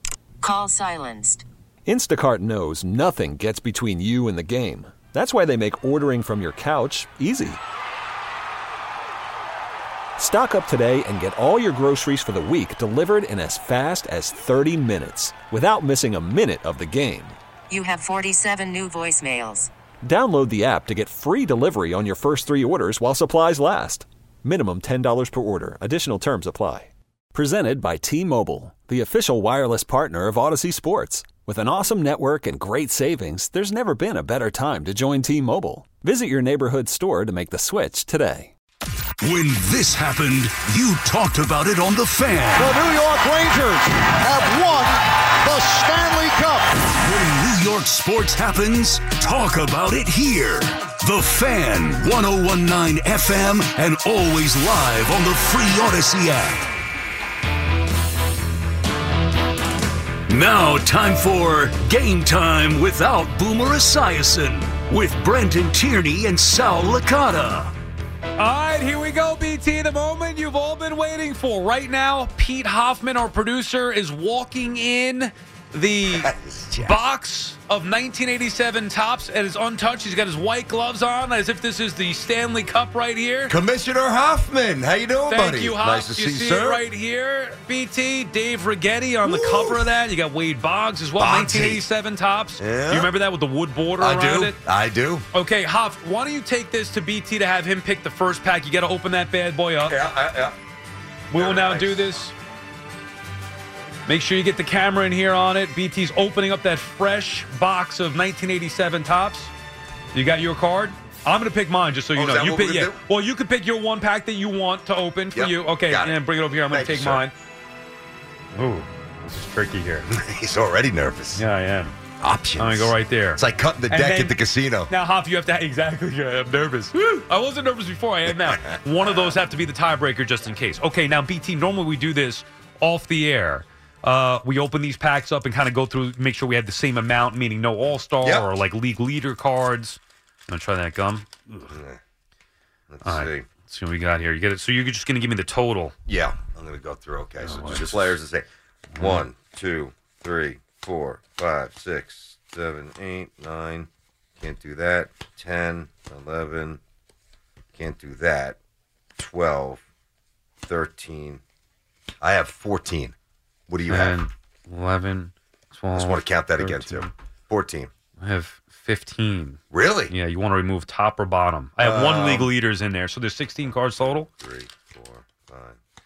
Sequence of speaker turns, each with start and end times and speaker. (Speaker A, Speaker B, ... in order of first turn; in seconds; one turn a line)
Speaker A: 0.4-1.4
Speaker B: 1.9-7.6
Speaker B: 10.2-17.4
Speaker A: 17.7-19.7
Speaker B: 20.0-38.5
Speaker C: 39.2-42.8
Speaker D: 42.5-46.7
Speaker C: 46.8-56.7
Speaker C: 60.3-67.7
Speaker E: 68.4-83.5
Speaker F: 76.1-77.0
Speaker F: 83.5-86.8
Speaker E: 85.3-94.6
Speaker F: 89.2-89.8
Speaker F: 91.2-91.8
Speaker F: 92.6-93.1
Speaker F: 94.0-95.3
Speaker E: 95.3-100.0
Speaker F: 99.9-100.6
Speaker E: 101.3-102.3
Speaker F: 101.3-102.2
Speaker E: 104.1-109.5
Speaker E: 110.1-117.3
Speaker F: 112.1-113.0
Speaker F: 115.3-117.2
Speaker E: 118.5-120.1
Speaker F: 120.1-121.5
Speaker E: 121.4-121.9
Speaker F: 122.2-124.9
Speaker E: 122.6-124.3
Speaker E: 124.9-141.7
Speaker F: 128.4-129.3
Speaker F: 138.2-138.5
Speaker F: 141.7-142.0
Speaker F: 142.9-143.4
Speaker E: 143.0-145.9
Speaker F: 146.1-148.4
Speaker E: 147.4-148.2
Speaker E: 148.9-149.2
Speaker F: 149.0-153.9
Speaker F: 154.4-156.8
Speaker F: 157.8-158.6
Speaker F: 159.2-159.8
Speaker F: 160.7-161.4
Speaker F: 162.2-163.1
Speaker F: 163.7-164.2
Speaker E: 163.9-167.1
Speaker F: 165.9-167.9
Speaker E: 168.2-174.3
Speaker F: 169.7-170.1
Speaker F: 171.8-172.5
Speaker F: 173.6-175.8